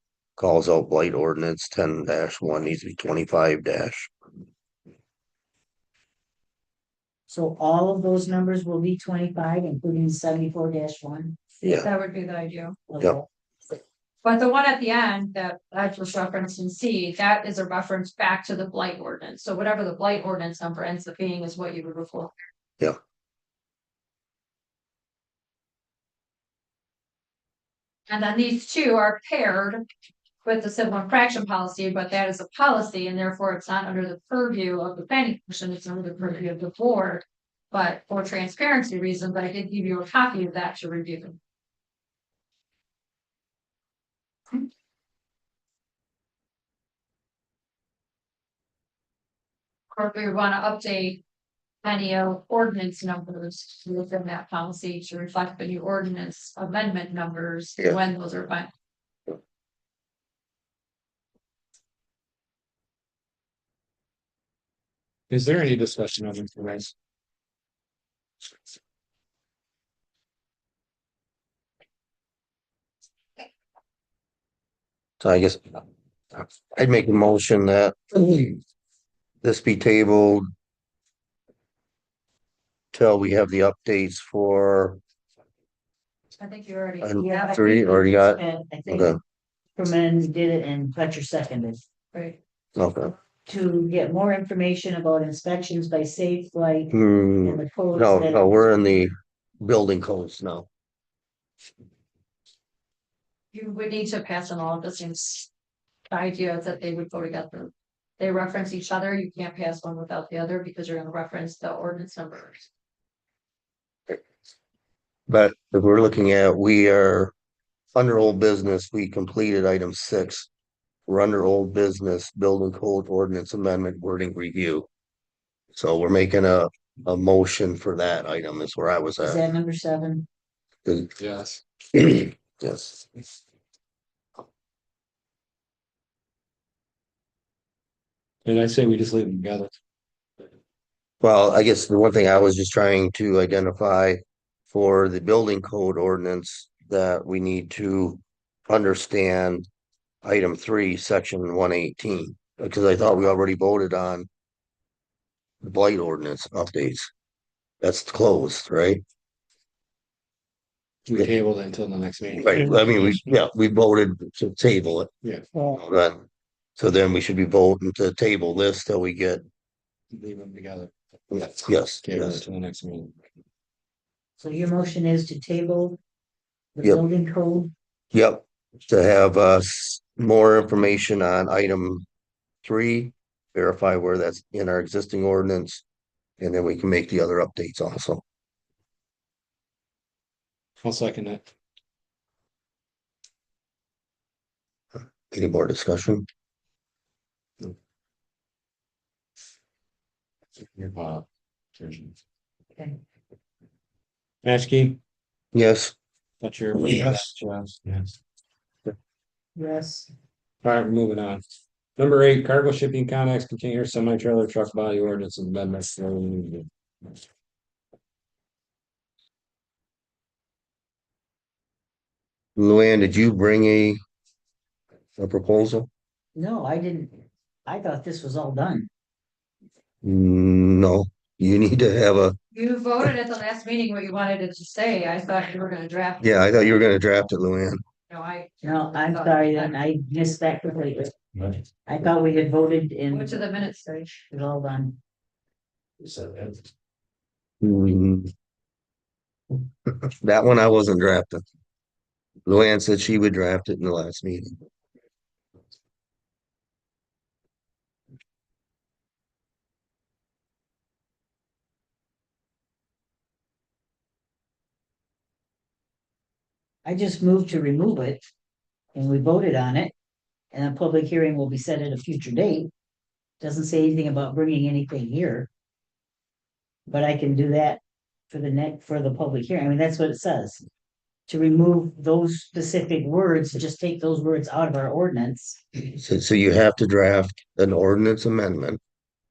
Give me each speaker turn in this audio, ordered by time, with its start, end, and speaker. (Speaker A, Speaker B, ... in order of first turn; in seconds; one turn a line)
Speaker A: 0.4-4.1
Speaker B: 7.3-11.4
Speaker C: 11.6-12.8
Speaker B: 12.9-13.3
Speaker C: 14.2-22.3
Speaker C: 28.1-29.9
Speaker C: 30.4-41.4
Speaker C: 49.9-51.2
Speaker C: 51.8-58.7
Speaker D: 65.3-66.9
Speaker A: 75.2-75.8
Speaker A: 76.3-78.6
Speaker A: 79.4-80.5
Speaker A: 82.9-85.0
Speaker C: 86.4-88.0
Speaker A: 87.0-89.2
Speaker B: 87.2-89.2
Speaker B: 89.8-91.8
Speaker A: 92.8-93.1
Speaker B: 93.5-98.6
Speaker A: 96.9-100.7
Speaker C: 103.5-105.5
Speaker C: 106.1-112.7
Speaker A: 115.3-117.3
Speaker A: 117.9-120.5
Speaker A: 121.1-124.9
Speaker A: 125.7-129.4
Speaker B: 129.2-130.2
Speaker A: 130.8-131.1
Speaker D: 131.2-131.6
Speaker A: 131.9-133.1
Speaker D: 138.4-139.7
Speaker A: 141.2-149.7
Speaker A: 150.2-154.3
Speaker A: 155.6-157.1
Speaker A: 157.8-159.0
Speaker D: 161.1-163.2
Speaker A: 162.4-165.1
Speaker D: 165.2-165.5
Speaker A: 165.7-166.2
Speaker A: 166.8-169.4
Speaker D: 170.1-173.1
Speaker A: 171.3-172.4
Speaker B: 174.4-176.0
Speaker B: 176.8-177.7
Speaker A: 178.1-182.1
Speaker A: 182.6-185.8
Speaker A: 186.4-188.2
Speaker D: 190.8-191.5
Speaker A: 195.3-196.3
Speaker D: 200.6-202.2
Speaker D: 204.4-205.0
Speaker A: 205.5-205.9
Speaker D: 206.4-208.1
Speaker B: 209.6-210.1
Speaker D: 210.6-211.4
Speaker D: 212.0-216.7
Speaker A: 222.6-224.0
Speaker A: 225.2-225.9
Speaker B: 226.3-227.1
Speaker B: 227.7-228.9
Speaker A: 230.0-232.4
Speaker C: 232.5-236.6
Speaker A: 236.2-237.8
Speaker C: 238.1-239.7
Speaker B: 238.6-241.2
Speaker B: 241.8-243.4
Speaker C: 243.1-244.1
Speaker B: 244.3-245.0
Speaker D: 246.1-246.4
Speaker A: 247.6-248.3
Speaker A: 250.0-251.4
Speaker A: 252.4-254.6
Speaker B: 266.8-268.3
Speaker B: 268.9-269.9
Speaker B: 270.5-272.7
Speaker B: 273.4-275.5
Speaker B: 276.9-280.6
Speaker B: 281.3-285.6
Speaker A: 285.9-288.8